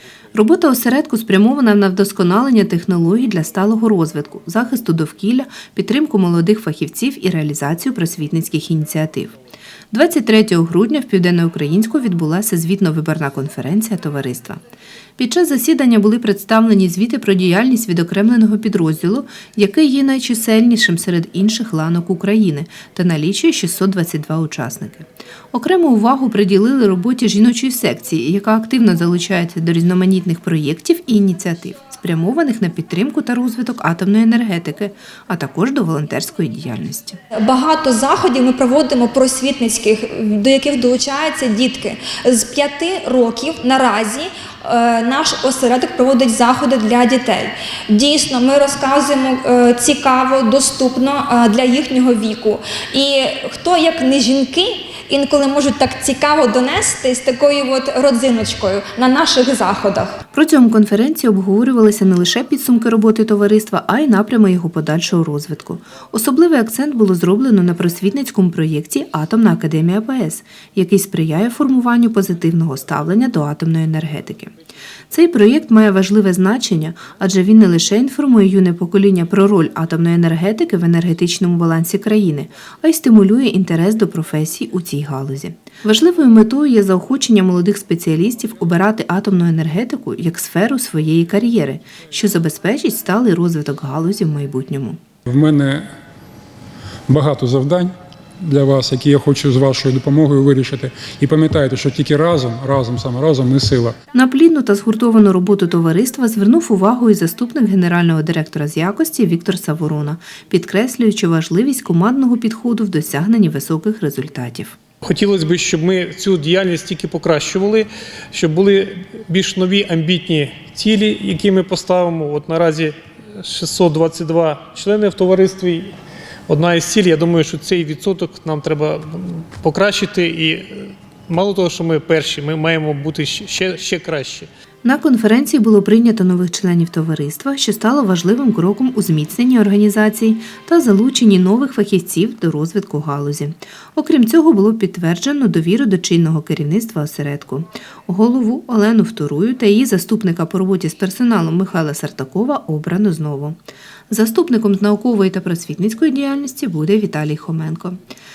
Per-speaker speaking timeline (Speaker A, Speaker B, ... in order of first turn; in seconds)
Speaker A: 0.3-9.4, 9.9-14.6, 15.2-37.2, 60.3-74.5, 75.1-95.0, 104.1-114.8, 134.8-153.6, 154.1-158.0
Speaker B: 37.5-60.1
Speaker C: 95.3-95.9, 97.1-104.0
Speaker D: 115.0-125.9, 126.5-134.5